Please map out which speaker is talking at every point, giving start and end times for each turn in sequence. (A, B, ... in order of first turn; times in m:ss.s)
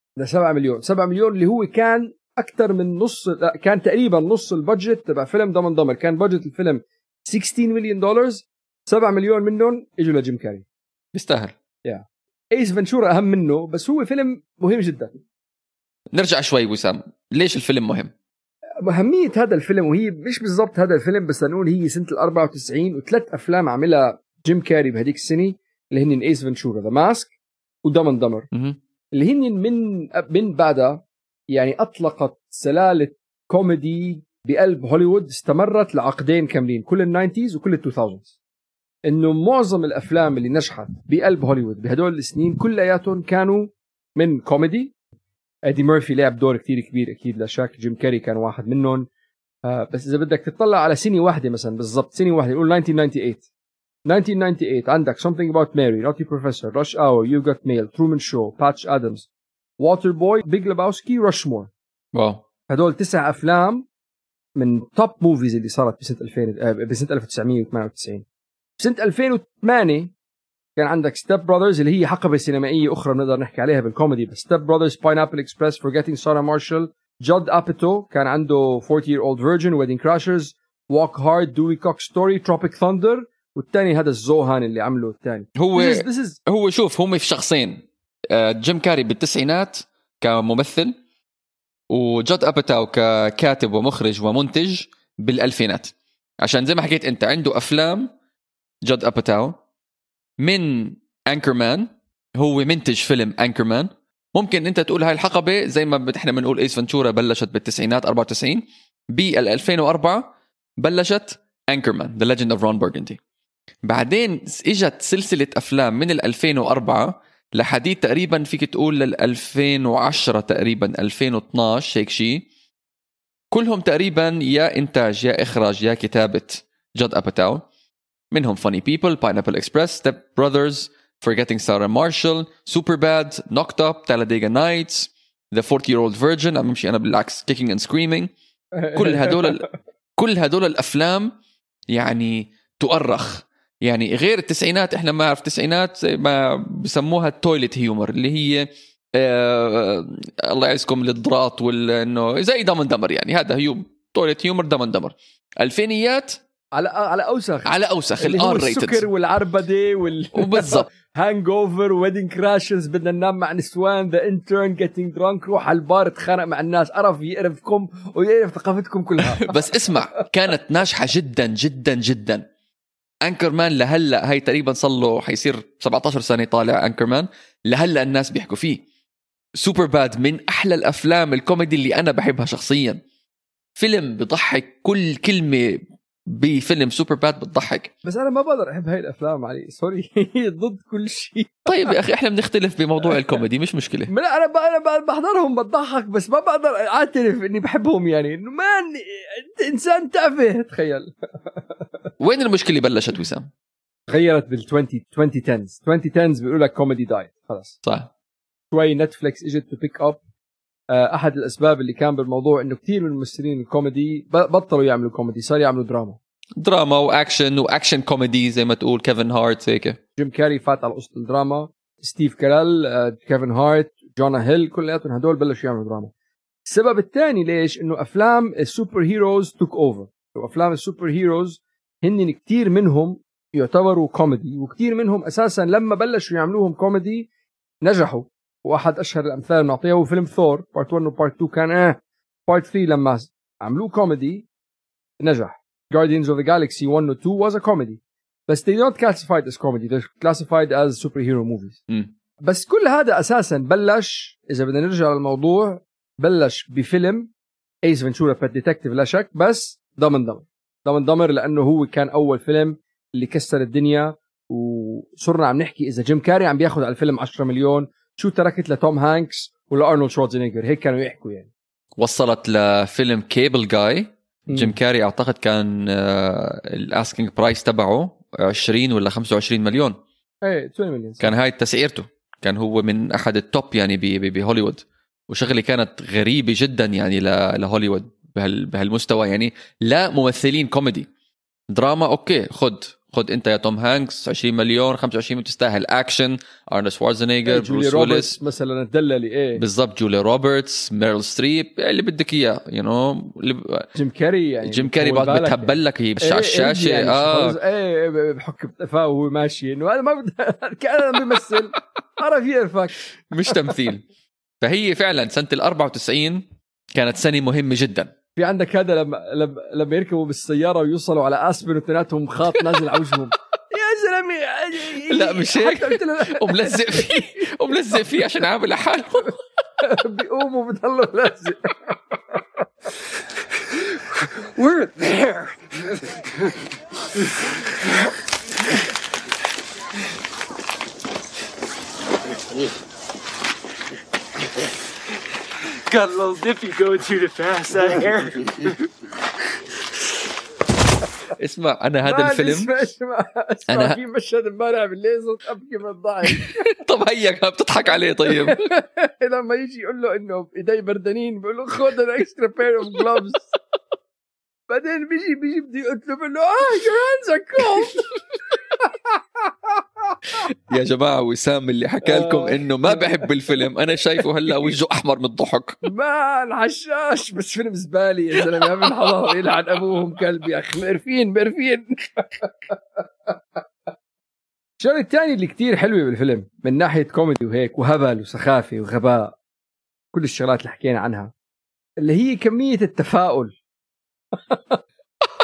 0:00.2-0:10.6 A
0:11.1-0:11.5 B
0:11.8-0:15.2 A
0:16.1-0:18.1 B
0:18.8-0:27.3 A
0:27.8-0:28.5 A
0:29.1-0:38.3 A
0:39.1-0:44.9 A
0:45.6-0:49.1 A
0:49.6-0:53.4 A
0:54.0-0:59.3 A
0:59.8-1:01.7 A
1:02.1-1:02.4 B
1:02.7-1:03.9 A
1:04.6-1:08.2 A
1:08.8-1:10.1 A
1:10.8-1:26.4 A
1:25.6-1:31.0 B
1:31.9-1:38.1 B
1:38.8-1:39.6 B
1:40.4-1:53.2 B
1:53.8-2:02.4 B
2:03.5-2:07.6 B
2:08.3-2:18.3 B
2:18.8-2:19.7 A
2:18.9-2:21.3 B
2:21.9-2:36.4 B
2:36.8-2:49.8 A
2:37.6-2:39.1 B
2:40.3-2:40.9 B
2:49.4-2:52.4 B
2:53.2-2:58.8 B
2:59.6-3:03.0 B
3:03.8-3:07.9 B
3:08.0-3:11.7 A
3:11.6-3:14.1 B
3:14.1-3:21.1 A
3:22.2-3:23.5 B
3:24.1-3:27.8 A
3:28.7-3:30.2 A
3:30.9-3:36.2 A
3:36.6-3:40.0 B
3:40.2-3:46.1 A
3:46.6-3:57.3 A
3:57.8-4:04.4 A
4:05.2-4:11.8 A
4:12.4-4:17.3 A
4:17.8-4:31.5 A
4:32.0-4:40.0 B
4:34.5-4:34.7 A
4:40.4-4:41.3 A
4:41.2-4:51.1 B
4:51.7-4:58.4 B
4:57.4-4:59.6 A
4:59.6-5:03.9 B
5:04.0-5:13.0 A
5:04.6-5:07.6 B
5:13.3-5:14.0 B
5:14.6-5:18.1 B
5:18.4-5:27.3 A
5:25.1-5:29.4 B
5:29.8-5:31.9 A
5:34.5-5:35.7 C
5:45.9-5:48.7 C
5:51.4-5:52.7 B
5:52.0-5:56.8 A
5:53.7-5:54.0 B
5:56.3-5:58.6 B
5:58.4-6:03.4 A
6:04.7-6:08.1 A
6:10.7-6:15.8 B
6:12.0-6:13.3 A
6:15.8-6:22.8 A
6:24.8-6:29.3 A
6:30.1-6:31.3 A
6:32.0-6:33.6 A
6:34.5-6:34.8 A